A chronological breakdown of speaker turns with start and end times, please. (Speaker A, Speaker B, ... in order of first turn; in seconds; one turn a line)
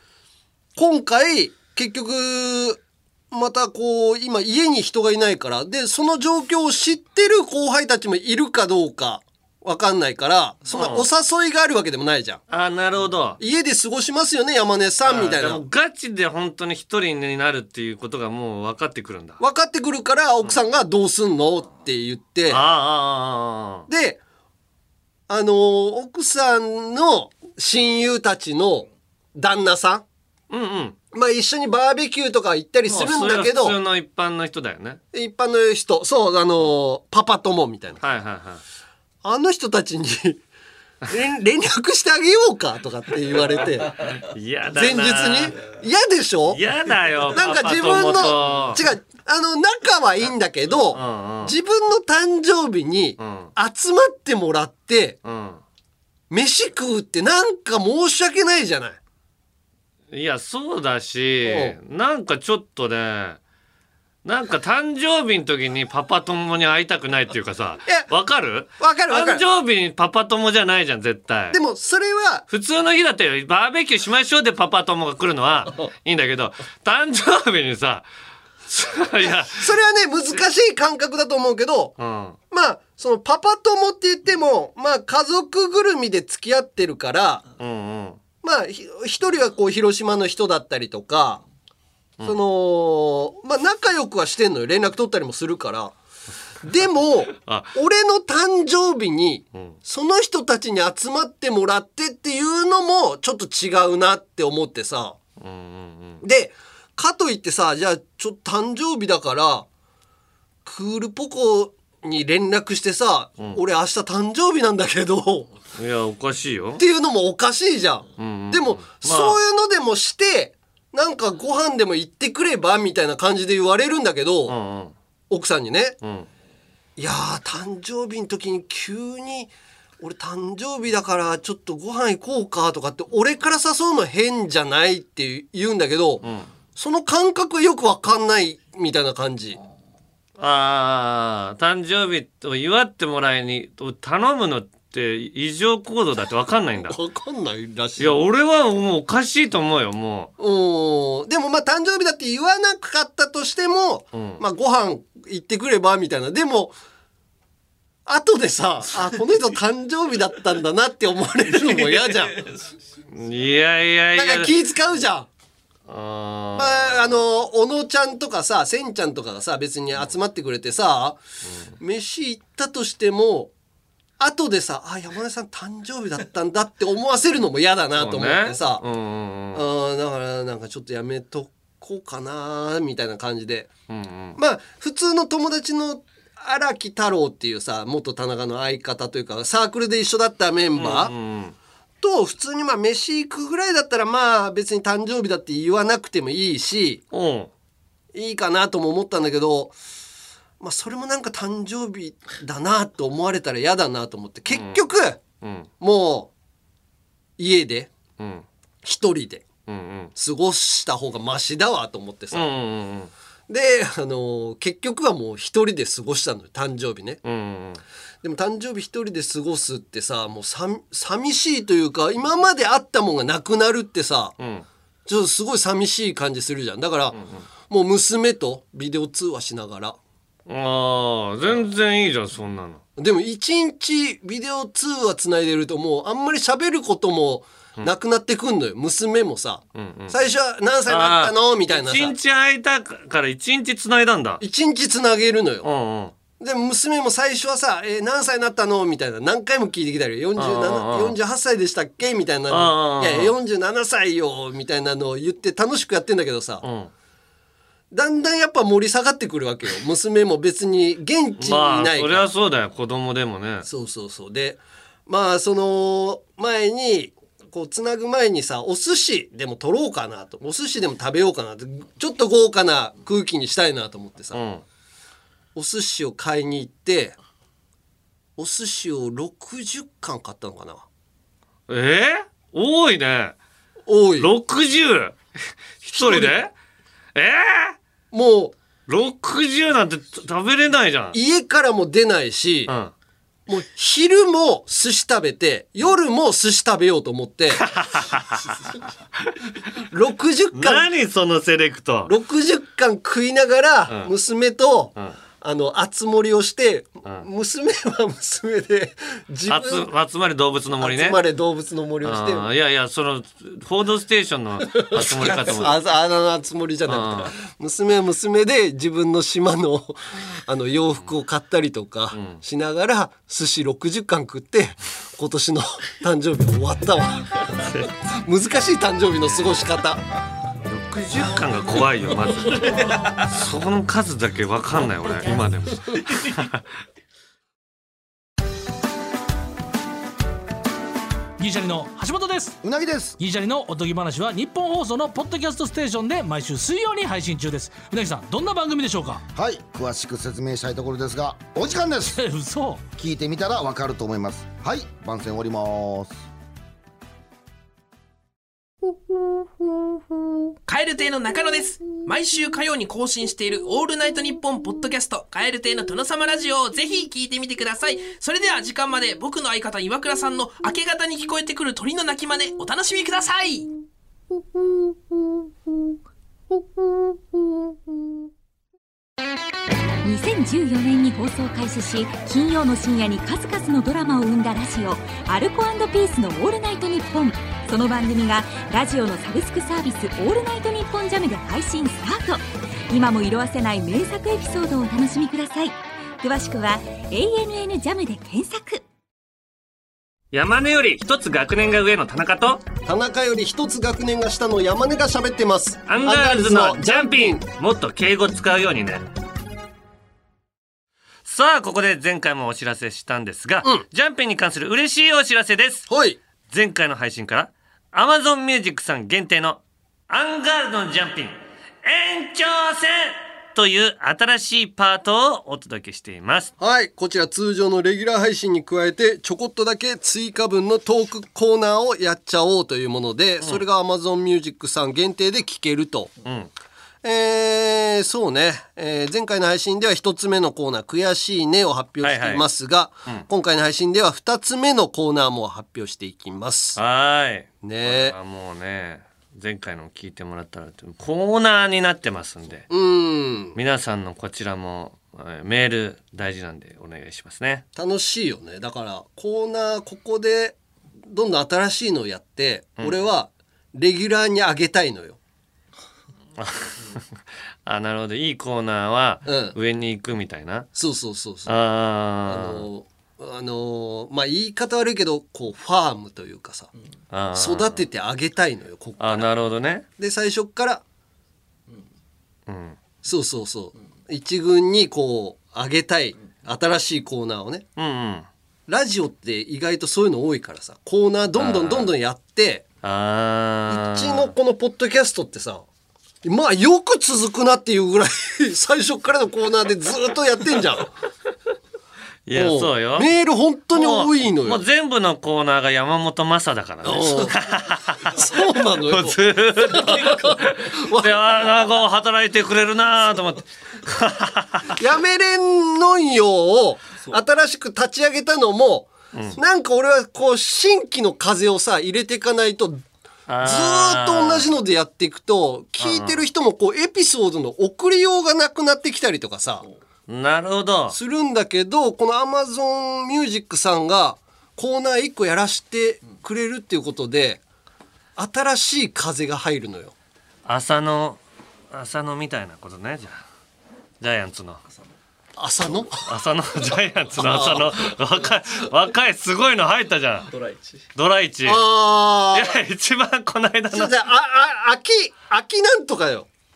Speaker A: 0.8-12.4
Speaker B: 10.7-11.1
Speaker B: 12.5-13.4
Speaker A: 13.4-15.6
Speaker B: 15.1-19.4
Speaker A: 19.4-22.6
Speaker B: 22.5-23.9
Speaker A: 23.9-24.2
Speaker A: 25.3-30.1
Speaker B: 30.5-31.0
Speaker A: 31.1-33.8
Speaker B: 32.9-35.0
Speaker A: 35.1-38.0
Speaker B: 38.0-38.6
Speaker A: 39.2-40.4
Speaker A: 41.1-44.2
Speaker B: 44.2-45.6
Speaker A: 44.7-46.6
Speaker B: 46.5-48.8
Speaker A: 47.3-55.2
Speaker B: 50.9-51.5
Speaker B: 53.2-53.5
Speaker B: 55.2-55.6
Speaker A: 56.3-59.0
Speaker B: 60.1-63.4
Speaker A: 61.5-61.8
Speaker B: 64.2-71.6
Speaker A: 68.8-69.4
Speaker A: 71.5-72.5
Speaker B: 72.5-78.1
Speaker B: 78.7-79.7
Speaker A: 79.5-81.9
Speaker B: 82.0-82.4
Speaker A: 82.5-87.4
Speaker B: 87.6-88.2
Speaker A: 88.4-91.4
Speaker A: 92.2-96.0
Speaker A: 96.6-105.2
Speaker B: 97.4-97.7
Speaker B: 105.4-106.2
Speaker A: 106.2-109.7
Speaker A: 110.6-115.5
Speaker B: 115.8-116.8
Speaker A: 116.8-124.6
Speaker B: 118.2-119.4
Speaker B: 124.5-125.0
Speaker A: 125.3-126.0
Speaker B: 126.0-126.3
Speaker A: 127.0-136.2
Speaker B: 136.2-136.5
Speaker A: 136.8-139.6
Speaker B: 140.4-147.0
Speaker A: 146.9-148.2
Speaker B: 148.0-150.3
Speaker A: 150.4-156.8
Speaker B: 154.1-154.4
Speaker A: 158.1-162.4
Speaker B: 163.1-164.5
Speaker A: 164.1-165.3
Speaker B: 165.9-167.2
Speaker A: 166.6-171.2
Speaker A: 171.8-173.5
Speaker A: 174.2-178.8
Speaker B: 178.0-179.7
Speaker A: 179.5-183.7
Speaker B: 183.9-184.4
Speaker A: 184.4-191.1
Speaker B: 190.8-191.6
Speaker A: 192.0-197.0
Speaker B: 197.1-197.5
Speaker A: 198.1-199.8
Speaker A: 200.6-205.2
Speaker B: 204.5-204.8
Speaker B: 205.4-205.7
Speaker A: 205.8-206.3
Speaker A: 207.4-207.9
Speaker B: 208.2-208.5
Speaker A: 208.8-209.5
Speaker B: 209.7-210.1
Speaker A: 210.2-212.5
Speaker B: 212.3-213.1
Speaker A: 213.5-217.2
Speaker B: 217.2-217.8
Speaker A: 218.2-224.3
Speaker B: 224.4-224.7
Speaker A: 225.1-227.2
Speaker B: 227.1-227.4
Speaker A: 227.7-230.0
Speaker B: 230.5-232.8
Speaker A: 233.0-242.2
Speaker B: 239.8-240.2
Speaker B: 240.9-244.4
Speaker A: 244.4-245.7
Speaker B: 245.6-246.2
Speaker A: 246.4-256.6
Speaker B: 250.4-251.2
Speaker B: 252.5-253.3
Speaker B: 256.6-256.9
Speaker A: 257.9-262.3
Speaker B: 261.4-263.7
Speaker A: 263.7-274.4
Speaker B: 274.3-274.6
Speaker A: 275.6-277.2
Speaker A: 278.4-280.9
Speaker B: 281.7-283.4
Speaker A: 283.9-284.3
Speaker B: 284.2-285.2
Speaker B: 285.8-286.5
Speaker A: 285.9-286.4
Speaker B: 287.1-287.8
Speaker A: 288.1-288.6
Speaker B: 288.9-291.2
Speaker A: 291.1-292.7
Speaker B: 292.7-292.9
Speaker A: 293.5-297.6
Speaker B: 297.7-298.6
Speaker A: 299.9-300.9
Speaker B: 300.6-302.1
Speaker A: 302.1-309.9
Speaker B: 303.9-304.1
Speaker B: 309.5-311.2
Speaker A: 310.8-312.5
Speaker B: 312.0-315.7
Speaker A: 314.6-327.5
Speaker B: 316.9-317.3
Speaker B: 322.1-322.4
Speaker B: 327.6-327.9
Speaker A: 328.2-330.0
Speaker B: 329.3-329.5
Speaker B: 330.6-336.6
Speaker C: 341.4-342.6
Speaker D: 342.6-343.2
Speaker C: 343.2-349.2
Speaker D: 349.3-352.2
Speaker C: 352.2-352.8
Speaker D: 353.0-356.2
Speaker E: 360.7-373.7
Speaker F: 380.1-398.8
Speaker B: 400.3-402.6
Speaker A: 402.9-407.4
Speaker B: 405.9-409.1
Speaker B: 411.2-415.9
Speaker A: 415.9-416.2
Speaker B: 416.5-426.5
Speaker A: 426.6-436.1
Speaker B: 436.2-436.5
Speaker A: 437.0-446.8
Speaker B: 442.0-442.4
Speaker B: 446.8-452.7
Speaker A: 447.6-448.2
Speaker A: 452.7-453.6
Speaker B: 453.6-457.6
Speaker A: 457.8-465.2
Speaker B: 462.8-463.1
Speaker B: 466.4-467.0
Speaker B: 467.7-470.7
Speaker A: 469.3-469.6
Speaker A: 470.8-471.6
Speaker B: 471.5-472.7
Speaker A: 472.3-476.7
Speaker B: 477.1-477.8
Speaker A: 477.4-479.3
Speaker B: 479.0-479.9
Speaker A: 480.0-480.8
Speaker B: 482.5-482.8
Speaker A: 483.0-487.6
Speaker B: 487.8-488.3
Speaker A: 488.7-492.6
Speaker B: 491.4-491.9
Speaker B: 492.8-494.3
Speaker A: 493.7-495.6
Speaker A: 496.2-500.9
Speaker B: 502.3-503.1
Speaker A: 502.3-504.6
Speaker B: 503.7-508.2
Speaker A: 506.8-507.4
Speaker A: 508.0-511.2
Speaker B: 508.9-514.8
Speaker A: 514.8-522.9
Speaker B: 519.1-519.4
Speaker B: 523.3-524.5
Speaker A: 523.4-529.7
Speaker B: 525.8-526.2
Speaker B: 530.1-531.0
Speaker A: 530.9-537.4
Speaker A: 538.2-539.9
Speaker B: 540.5-541.2
Speaker B: 541.7-543.2
Speaker B: 544.0-544.6
Speaker A: 545.4-546.1
Speaker B: 546.1-550.3
Speaker A: 547.1-547.9
Speaker B: 551.0-551.6
Speaker A: 551.5-552.5
Speaker B: 552.3-553.9
Speaker A: 553.7-556.3